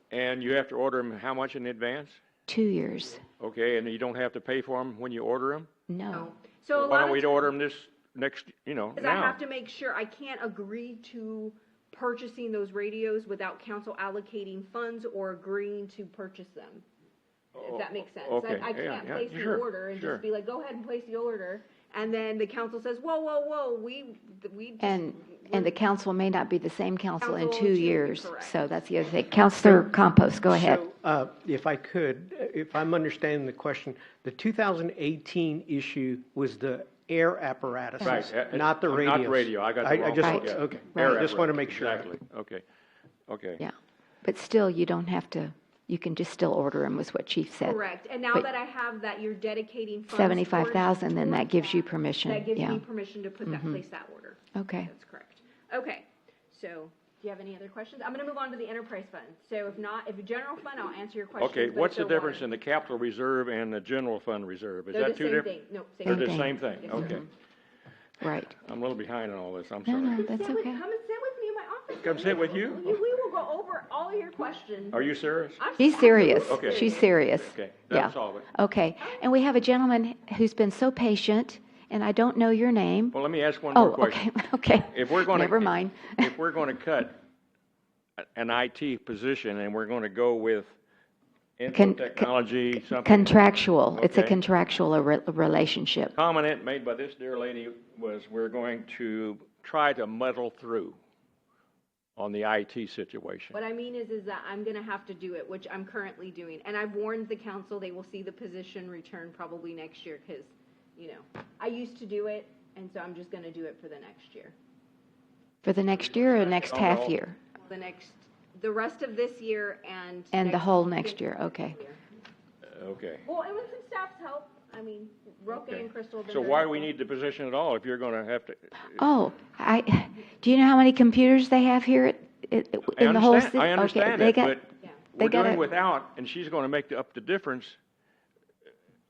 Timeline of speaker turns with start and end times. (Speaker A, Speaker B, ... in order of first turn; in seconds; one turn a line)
Speaker A: 0.1-2.2
Speaker B: 2.5-3.2
Speaker A: 3.4-5.7
Speaker B: 5.9-6.3
Speaker C: 6.1-7.5
Speaker A: 6.7-9.4
Speaker C: 8.9-16.8
Speaker A: 17.6-20.2
Speaker C: 17.6-25.7
Speaker B: 24.8-30.8
Speaker C: 27.2-28.8
Speaker D: 30.4-42.1
Speaker A: 38.0-42.6
Speaker B: 40.2-40.5
Speaker A: 43.3-43.6
Speaker B: 43.6-47.8
Speaker C: 47.6-62.5
Speaker B: 50.1-52.8
Speaker B: 53.4-53.8
Speaker B: 54.5-54.9
Speaker A: 61.4-65.5
Speaker C: 64.9-67.2
Speaker A: 66.0-67.2
Speaker B: 66.0-67.3
Speaker B: 68.2-68.5
Speaker A: 68.5-70.2
Speaker B: 69.8-70.8
Speaker C: 70.1-77.1
Speaker A: 72.0-73.0
Speaker A: 74.9-75.6
Speaker B: 75.8-83.2
Speaker A: 76.4-78.5
Speaker A: 83.1-84.2
Speaker B: 83.7-86.3
Speaker A: 84.9-87.2
Speaker A: 88.2-90.8
Speaker A: 91.6-94.4
Speaker B: 91.7-92.3
Speaker B: 92.9-96.1
Speaker A: 96.1-101.0
Speaker A: 102.2-103.5
Speaker C: 103.5-114.5
Speaker B: 115.6-117.4
Speaker A: 116.0-117.2
Speaker C: 117.6-122.0
Speaker B: 120.3-121.8
Speaker A: 122.6-123.2
Speaker C: 123.2-126.9
Speaker A: 125.6-129.0
Speaker B: 128.9-134.6
Speaker A: 132.9-137.8
Speaker B: 135.2-135.6